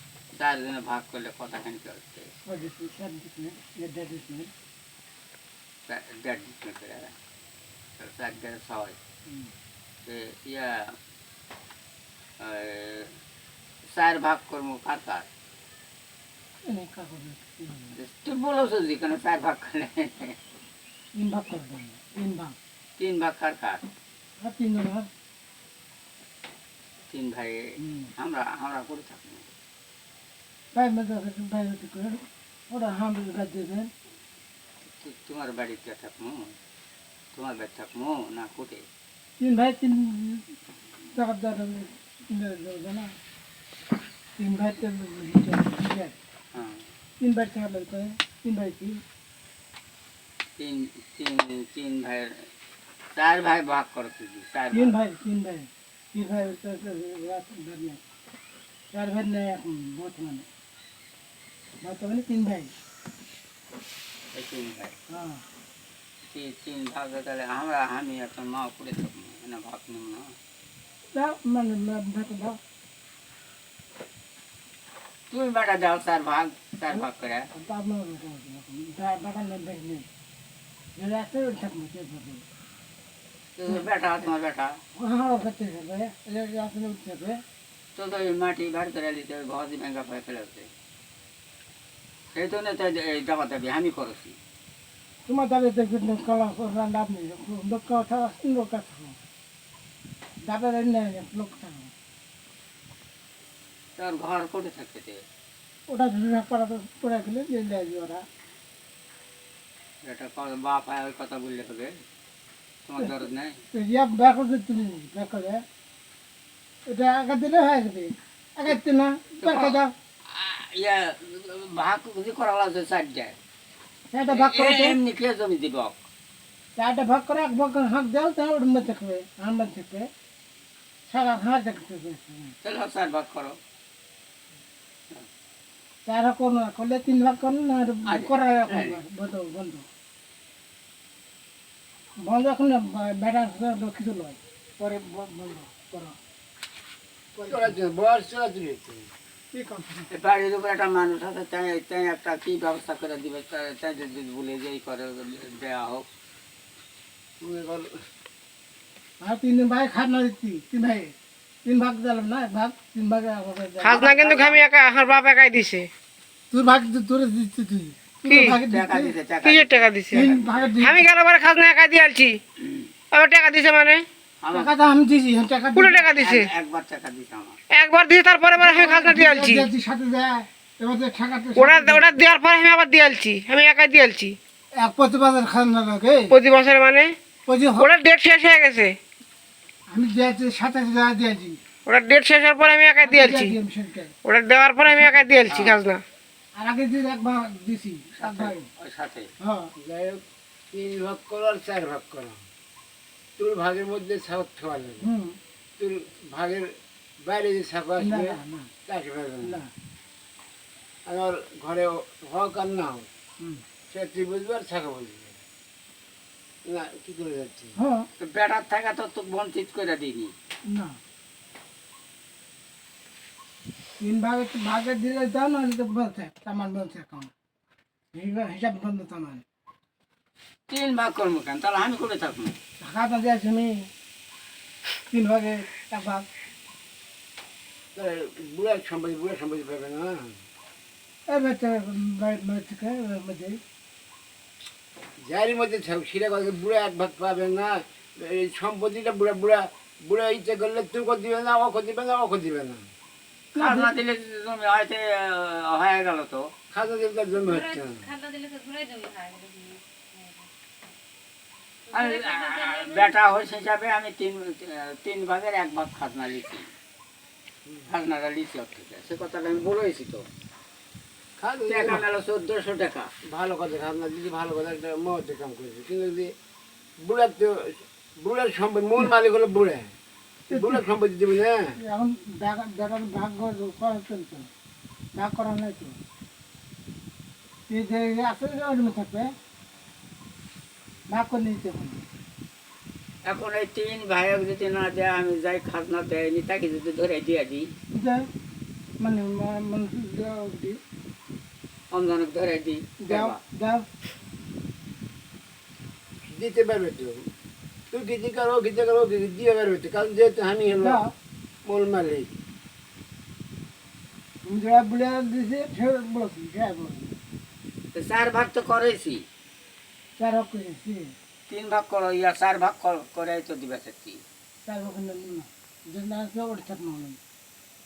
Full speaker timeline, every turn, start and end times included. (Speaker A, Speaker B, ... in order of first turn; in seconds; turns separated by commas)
Speaker A: 0.3-2.3, Speaker B: 2.5-4.5, Speaker A: 5.9-7.1, Speaker A: 8.0-8.9, Speaker B: 9.3-9.5, Speaker A: 10.1-10.9, Speaker A: 12.4-13.1, Speaker A: 13.9-15.2, Speaker B: 16.6-17.9, Speaker A: 17.9-20.4, Speaker B: 21.1-22.6, Speaker A: 23.0-23.8, Speaker B: 24.4-25.1, Speaker A: 27.1-29.4, Speaker B: 27.8-28.1, Speaker B: 30.7-33.9, Speaker A: 34.9-36.5, Speaker A: 37.3-38.8, Speaker B: 39.4-40.5, Speaker B: 41.1-43.1, Speaker B: 44.4-46.1, Speaker A: 46.5-46.8, Speaker B: 47.2-49.0, Speaker A: 50.6-52.3, Speaker A: 53.1-55.0, Speaker B: 54.7-58.0, Speaker B: 58.9-60.5, Speaker B: 61.8-62.7, Speaker A: 64.3-64.9, Speaker B: 65.1-65.4, Speaker A: 66.3-70.3, Speaker B: 71.1-72.6, Speaker A: 75.3-77.5, Speaker B: 77.5-80.1, Speaker B: 81.0-82.4, Speaker A: 83.6-84.8, Speaker B: 85.0-87.4, Speaker A: 88.0-90.7, Speaker A: 92.3-94.4, Speaker B: 95.2-99.2, Speaker B: 100.4-101.9, Speaker A: 104.0-105.2, Speaker B: 105.9-108.2, Speaker A: 110.0-111.9, Speaker A: 112.8-113.6, Speaker B: 113.7-115.6, Speaker B: 116.9-119.9, Speaker A: 119.4-123.3, Speaker B: 124.1-125.0, Speaker A: 124.3-126.0, Speaker B: 126.8-130.1, Speaker B: 131.1-132.5, Speaker A: 132.6-133.6, Speaker B: 136.1-139.8, Speaker A: 138.1-139.0, Speaker B: 142.2-146.2, Speaker B: 147.3-147.8, Speaker C: 147.5-149.1, Speaker B: 149.5-150.1, Speaker A: 150.1-156.0, Speaker C: 157.4-157.9, Speaker B: 159.2-161.1, Speaker B: 161.6-164.1, Speaker A: 163.8-164.6, Speaker D: 163.8-165.9, Speaker B: 166.5-169.1, Speaker D: 168.2-168.5, Speaker A: 168.4-170.7, Speaker D: 169.4-172.4, Speaker B: 170.1-171.0, Speaker D: 173.1-174.0, Speaker A: 174.4-174.7, Speaker B: 174.5-176.1, Speaker D: 175.8-176.5, Speaker A: 176.2-177.6, Speaker D: 177.7-179.7, Speaker B: 178.6-182.1, Speaker D: 181.6-184.3, Speaker B: 184.7-186.3, Speaker D: 186.3-187.1, Speaker B: 187.5-187.9, Speaker D: 187.8-188.9, Speaker B: 189.9-191.6, Speaker D: 191.8-193.6, Speaker B: 193.0-194.1, Speaker D: 194.2-196.0, Speaker B: 194.9-195.2, Speaker A: 195.5-195.8, Speaker B: 196.5-198.7, Speaker A: 198.2-199.3, Speaker B: 199.4-199.7, Speaker C: 199.8-202.4, Speaker C: 203.4-205.0, Speaker B: 205.0-205.4, Speaker C: 205.8-209.6, Speaker B: 208.0-208.7, Speaker B: 209.4-209.7, Speaker C: 211.1-213.1, Speaker C: 213.9-215.3, Speaker C: 216.7-217.7, Speaker B: 217.8-218.0, Speaker A: 218.2-220.3, Speaker B: 220.7-221.0, Speaker B: 224.0-227.3, Speaker B: 228.1-229.4, Speaker A: 230.7-232.6, Speaker B: 232.8-233.9, Speaker B: 235.1-236.3, Speaker C: 237.9-240.3, Speaker B: 241.3-243.6, Speaker C: 245.2-252.8, Speaker A: 253.5-256.5, Speaker B: 253.6-253.9, Speaker C: 256.7-258.1, Speaker E: 257.3-260.4, Speaker A: 261.9-266.6, Speaker E: 262.2-263.0, Speaker A: 267.9-270.2, Speaker C: 271.4-272.0, Speaker A: 271.6-273.1, Speaker C: 273.3-276.3, Speaker C: 277.0-279.9, Speaker C: 280.5-281.8, Speaker B: 280.5-280.8, Speaker B: 281.8-284.5, Speaker B: 285.1-286.0, Speaker B: 287.7-289.3, Speaker B: 291.1-292.0, Speaker A: 293.2-297.7, Speaker B: 297.9-298.3, Speaker B: 299.0-300.8, Speaker A: 301.9-303.4, Speaker B: 303.0-303.9, Speaker C: 306.2-307.2, Speaker C: 307.9-311.0, Speaker B: 310.8-311.1, Speaker C: 311.6-312.4, Speaker B: 314.4-317.1, Speaker A: 317.9-319.2, Speaker B: 320.2-321.1, Speaker A: 321.5-324.2, Speaker B: 324.6-327.2